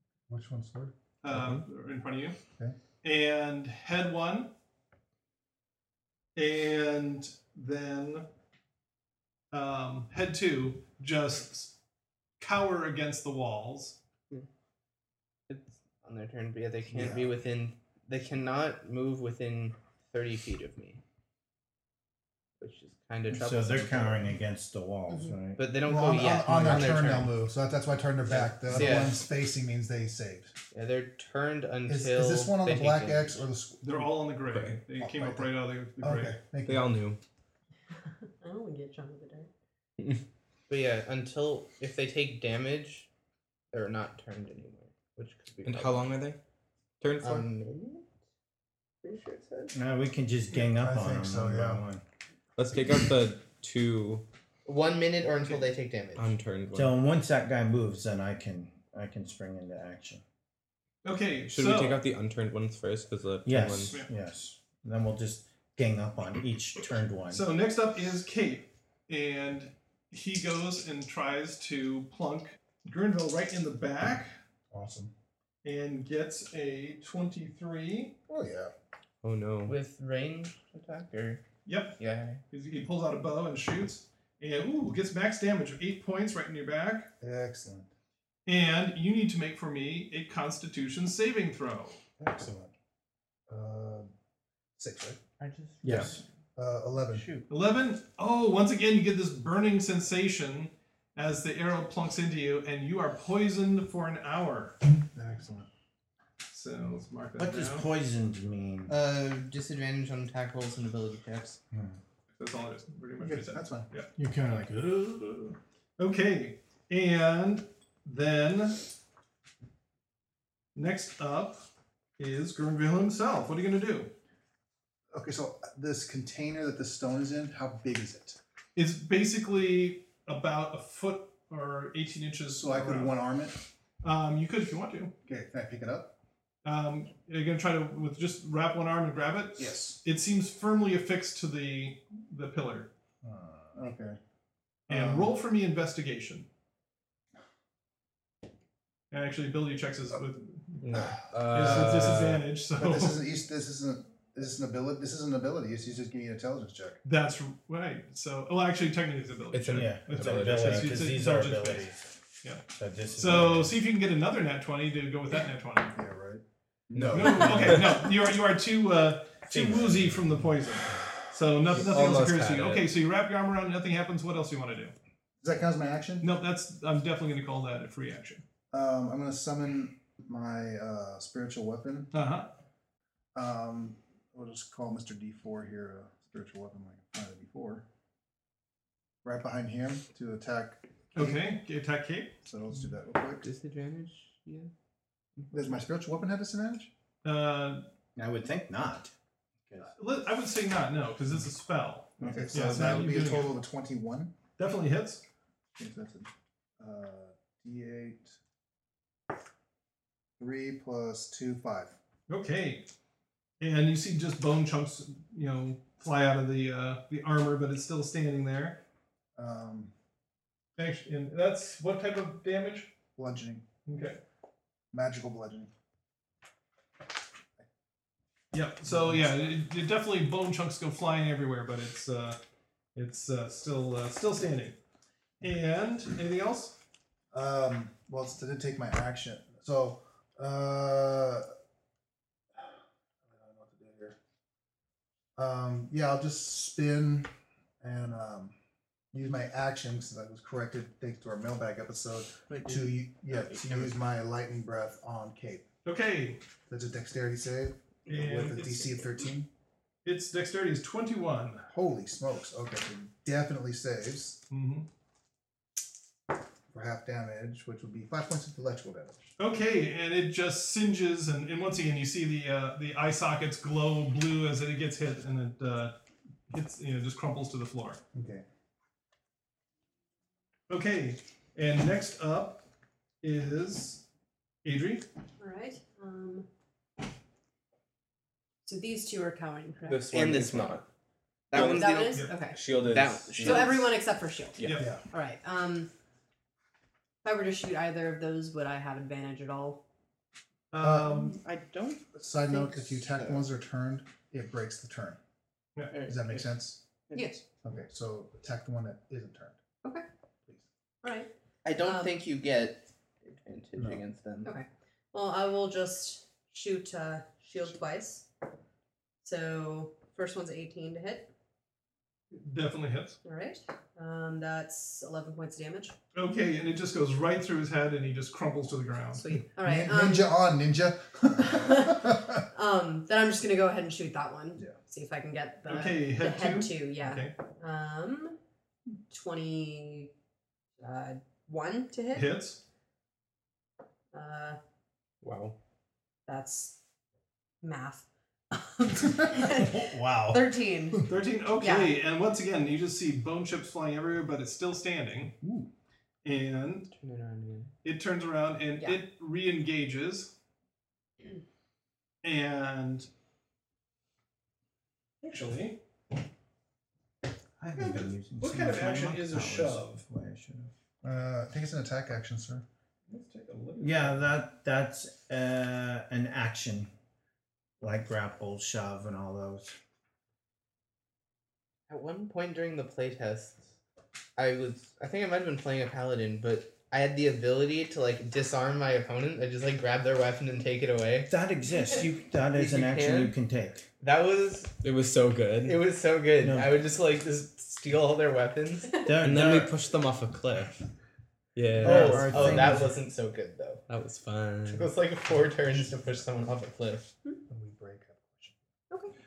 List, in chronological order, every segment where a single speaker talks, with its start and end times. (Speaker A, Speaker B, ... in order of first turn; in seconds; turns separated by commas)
Speaker A: 0.3-0.9, Speaker B: 1.2-2.4, Speaker C: 1.3-1.6, Speaker B: 3.0-4.5, Speaker B: 6.3-8.3, Speaker B: 9.5-11.7, Speaker B: 12.4-14.0, Speaker D: 15.5-21.0, Speaker A: 16.9-17.3, Speaker D: 22.6-24.3, Speaker E: 23.3-25.6, Speaker D: 25.6-27.3, Speaker A: 25.8-30.5, Speaker E: 26.5-27.0, Speaker D: 28.3-29.2, Speaker D: 30.7-33.4, Speaker A: 31.9-34.1, Speaker B: 33.8-36.4, Speaker C: 34.5-34.8, Speaker A: 35.0-36.9, Speaker C: 36.6-37.2, Speaker F: 38.4-39.5, Speaker D: 40.7-43.1, Speaker D: 43.7-46.1, Speaker C: 45.6-46.4, Speaker C: 47.0-47.4, Speaker D: 47.2-48.1, Speaker D: 49.0-49.7, Speaker E: 49.7-52.0, Speaker A: 50.5-51.8, Speaker C: 52.5-54.2, Speaker D: 54.6-56.3, Speaker C: 56.2-57.0, Speaker E: 56.7-60.2, Speaker B: 61.0-62.0, Speaker C: 61.5-64.0, Speaker E: 63.4-67.4, Speaker B: 67.3-74.3, Speaker A: 74.7-75.1, Speaker B: 75.6-78.1, Speaker A: 78.3-78.7, Speaker C: 79.2-79.8, Speaker D: 79.7-81.4, Speaker B: 81.6-82.0, Speaker D: 82.0-82.4, Speaker B: 82.5-87.1, Speaker A: 87.2-87.9, Speaker B: 88.5-92.0, Speaker A: 92.2-92.7, Speaker A: 93.5-94.1, Speaker A: 94.8-95.2, Speaker D: 95.4-96.2, Speaker A: 95.8-97.2, Speaker D: 97.1-97.5, Speaker B: 97.5-104.8, Speaker A: 105.1-105.7, Speaker B: 106.5-107.9, Speaker E: 107.4-109.0, Speaker D: 108.9-111.6, Speaker A: 111.7-112.0, Speaker B: 112.3-114.1, Speaker A: 113.2-115.5, Speaker B: 116.0-118.9, Speaker B: 120.7-121.6, Speaker B: 122.2-124.1, Speaker A: 125.1-128.4, Speaker B: 128.8-133.1, Speaker A: 132.6-133.6, Speaker B: 134.0-135.1, Speaker A: 135.3-136.1, Speaker B: 136.6-142.9, Speaker A: 139.6-140.0, Speaker A: 143.2-144.2, Speaker A: 144.9-145.4, Speaker B: 144.9-146.5, Speaker B: 149.1-153.2, Speaker C: 150.8-152.4, Speaker A: 151.5-152.2, Speaker A: 152.8-157.0, Speaker B: 157.0-162.7, Speaker C: 159.5-161.1, Speaker E: 159.7-162.1, Speaker E: 162.8-163.8, Speaker B: 163.2-165.9, Speaker A: 165.9-167.8, Speaker C: 166.9-167.9, Speaker B: 167.1-174.9, Speaker E: 169.5-170.3, Speaker C: 171.7-172.9, Speaker A: 175.4-176.3, Speaker B: 176.2-178.4, Speaker A: 178.7-182.1, Speaker B: 182.1-182.5, Speaker A: 183.3-187.8, Speaker A: 189.2-191.3, Speaker B: 191.1-192.3, Speaker A: 192.4-193.4, Speaker D: 193.3-194.7, Speaker D: 195.4-195.7, Speaker A: 195.5-196.9, Speaker B: 197.2-197.8, Speaker E: 198.2-199.1, Speaker B: 199.9-203.5, Speaker A: 202.2-204.3, Speaker E: 202.2-203.0, Speaker B: 204.6-205.2, Speaker A: 205.8-208.4, Speaker A: 210.4-212.0, Speaker B: 212.3-212.9, Speaker B: 213.6-218.8, Speaker A: 219.3-219.9, Speaker B: 220.8-222.9, Speaker A: 223.2-223.6, Speaker B: 223.8-224.2, Speaker A: 224.9-225.7, Speaker B: 228.5-232.4, Speaker A: 228.9-229.2, Speaker B: 232.9-234.8, Speaker B: 235.4-236.8, Speaker A: 237.3-241.5, Speaker A: 242.6-244.2, Speaker A: 245.4-248.5, Speaker A: 249.1-255.6, Speaker D: 252.5-252.9, Speaker E: 253.3-253.9, Speaker B: 255.8-256.4, Speaker A: 256.7-259.5, Speaker B: 258.1-259.0, Speaker B: 260.0-261.7, Speaker A: 261.7-264.4, Speaker B: 264.5-264.9, Speaker A: 266.7-269.3, Speaker B: 269.4-275.9, Speaker B: 276.5-278.0, Speaker A: 278.1-278.4, Speaker B: 280.7-282.6, Speaker B: 283.2-284.0, Speaker B: 284.6-285.1, Speaker F: 285.4-286.4, Speaker F: 288.6-290.1, Speaker C: 289.9-290.8, Speaker D: 290.1-290.8, Speaker D: 291.5-293.8, Speaker F: 291.5-292.6, Speaker C: 291.5-293.8, Speaker F: 293.4-295.9, Speaker C: 294.6-294.8, Speaker B: 294.6-294.9, Speaker F: 297.2-299.8, Speaker B: 300.7-301.3, Speaker A: 300.8-301.3, Speaker D: 301.0-303.5, Speaker A: 302.1-305.2, Speaker D: 305.9-306.4, Speaker A: 306.1-306.8, Speaker D: 307.1-307.4, Speaker F: 307.1-307.4, Speaker A: 307.6-309.6, Speaker F: 311.0-311.3, Speaker D: 311.6-314.5, Speaker F: 311.8-312.1, Speaker A: 313.8-314.0, Speaker F: 314.4-318.2, Speaker F: 319.2-321.3, Speaker B: 322.3-323.2, Speaker F: 323.2-325.9, Speaker B: 326.1-329.2, Speaker F: 329.2-330.3, Speaker A: 329.3-332.4, Speaker F: 331.4-338.4, Speaker B: 335.7-337.3, Speaker F: 339.1-340.1, Speaker F: 340.8-342.3, Speaker B: 342.1-342.6, Speaker F: 344.1-344.6, Speaker C: 345.2-345.6, Speaker F: 346.3-346.8, Speaker F: 347.6-351.0, Speaker A: 349.0-351.0, Speaker B: 351.1-355.3, Speaker F: 351.6-352.0, Speaker A: 355.4-355.7, Speaker B: 356.2-356.9, Speaker D: 356.9-357.7, Speaker B: 357.8-360.3, Speaker B: 362.2-363.1, Speaker B: 365.2-365.8, Speaker E: 367.6-370.7, Speaker B: 367.7-370.0, Speaker A: 371.0-372.6, Speaker B: 373.1-374.3, Speaker E: 373.8-376.9, Speaker E: 377.8-379.8, Speaker D: 381.9-383.7, Speaker D: 384.4-391.3, Speaker E: 391.3-393.9, Speaker D: 392.5-393.4, Speaker D: 394.0-394.8, Speaker C: 394.8-395.8, Speaker D: 395.6-399.0, Speaker E: 396.4-396.7, Speaker E: 399.0-399.7, Speaker C: 399.2-400.9, Speaker C: 401.5-402.9, Speaker E: 401.8-402.9, Speaker D: 401.8-403.8, Speaker C: 403.9-404.9, Speaker D: 404.6-407.1, Speaker A: 407.5-408.6